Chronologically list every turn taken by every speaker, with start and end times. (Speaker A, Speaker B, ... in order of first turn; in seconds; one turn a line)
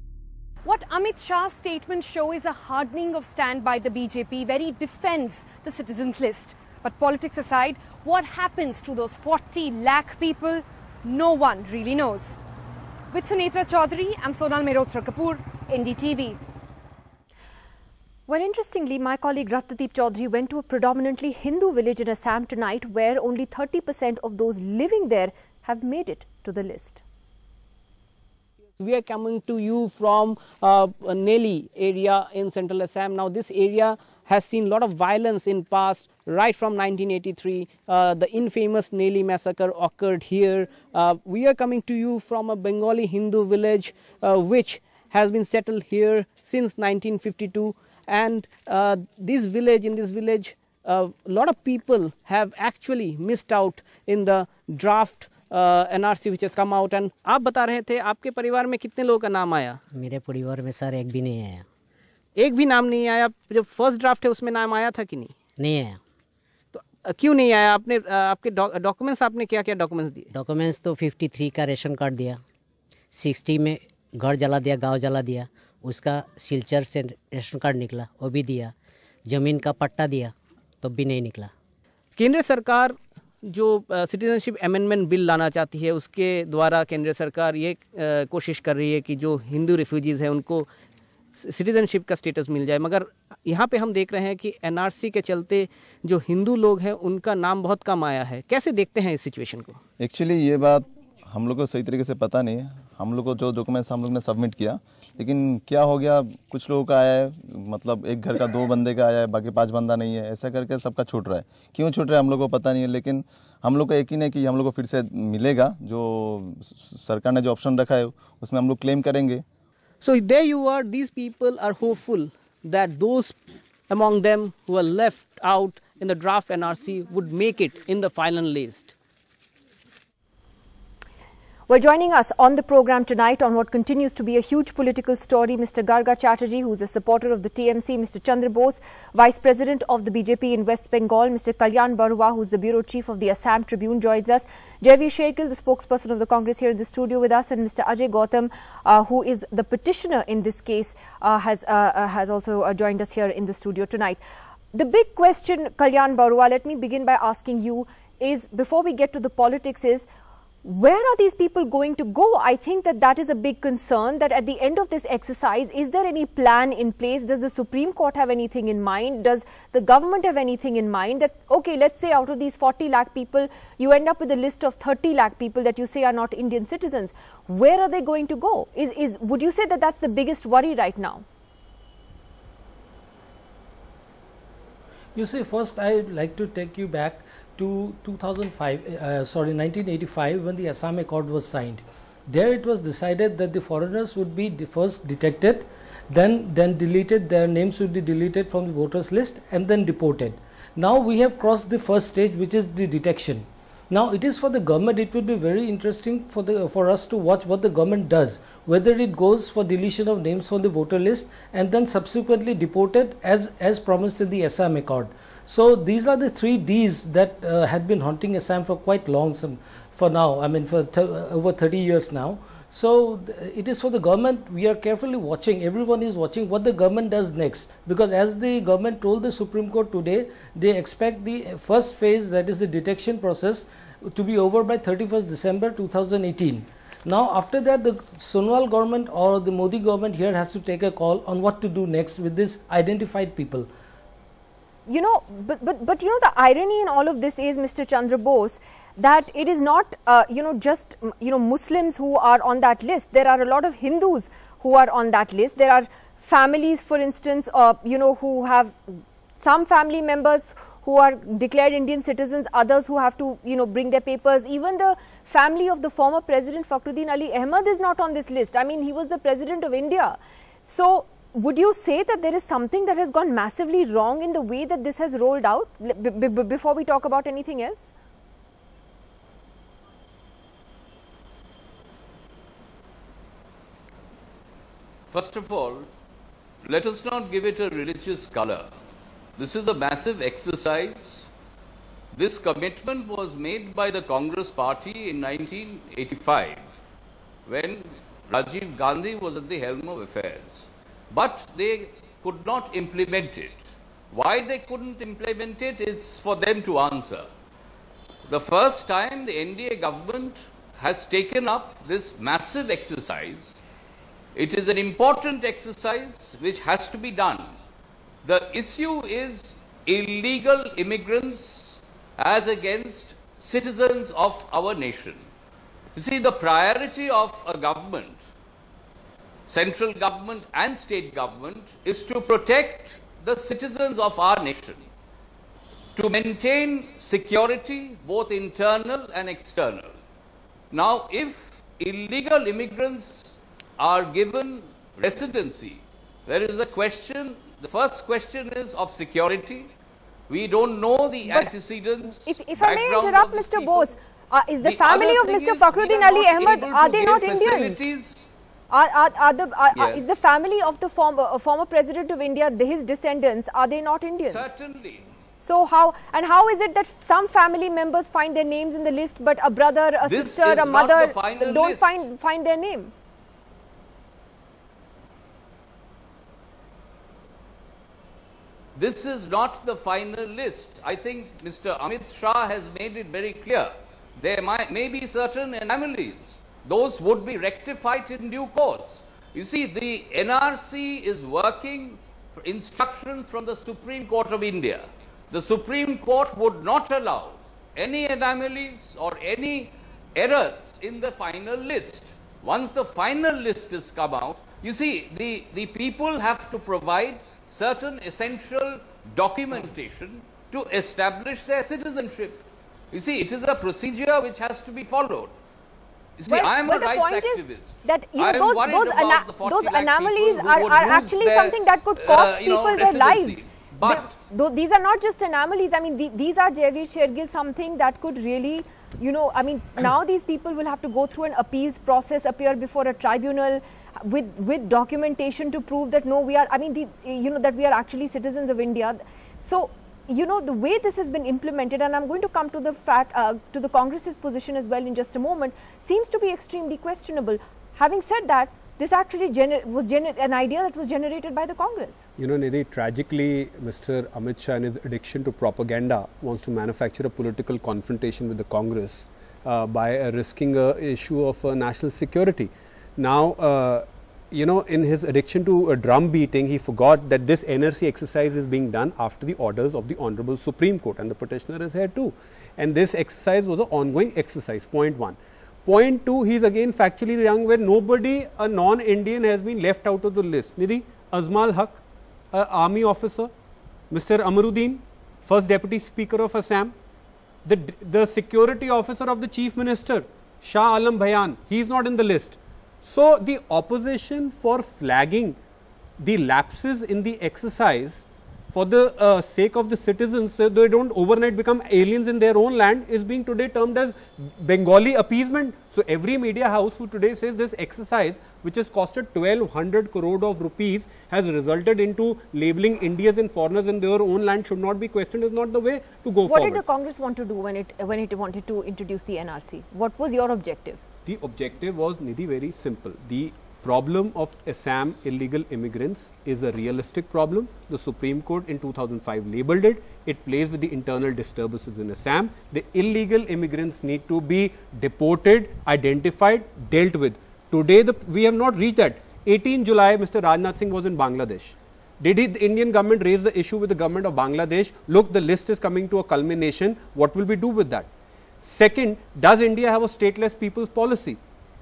Speaker A: 0.6-12.3
Speaker A: 13.1-16.4
Speaker B: 18.3-27.0
Speaker C: 28.8-59.8
Speaker D: 59.9-61.6
Speaker C: 62.4-65.3
Speaker D: 65.6-66.0
Speaker C: 66.7-70.2
Speaker D: 70.3-72.4
Speaker D: 73.1-78.7
Speaker D: 79.3-81.5
Speaker C: 82.2-83.0
Speaker C: 83.5-90.7
Speaker C: 91.5-99.8
Speaker E: 100.0-119.4
Speaker C: 120.0-123.4
Speaker C: 123.9-128.9
Speaker B: 131.7-154.2
Speaker B: 154.7-160.0
Speaker B: 160.6-181.2
Speaker F: 185.2-243.7
Speaker B: 244.9-277.9
Speaker G: 285.1-285.9
Speaker G: 286.6-288.7
Speaker G: 289.4-291.3
Speaker G: 292.1-296.7
Speaker G: 297.5-307.3
Speaker G: 308.3-313.6
Speaker G: 314.4-317.5
Speaker G: 318.2-325.3
Speaker G: 325.9-328.2
Speaker G: 329.5-334.9
Speaker G: 335.9-339.9
Speaker G: 340.7-349.7
Speaker G: 350.3-353.9
Speaker B: 351.2-351.5
Speaker B: 352.2-357.8
Speaker G: 354.6-358.3
Speaker B: 358.7-364.5
Speaker G: 359.7-360.1
Speaker G: 364.2-365.1
Speaker B: 365.4-372.9
Speaker G: 370.0-372.0
Speaker G: 378.8-415.3
Speaker G: 416.2-424.1
Speaker B: 416.3-452.0
Speaker H: 452.2-483.3
Speaker H: 483.9-486.7
Speaker H: 487.4-495.4
Speaker H: 496.0-516.6
Speaker B: 516.2-520.8
Speaker H: 521.0-547.9
Speaker H: 548.4-551.2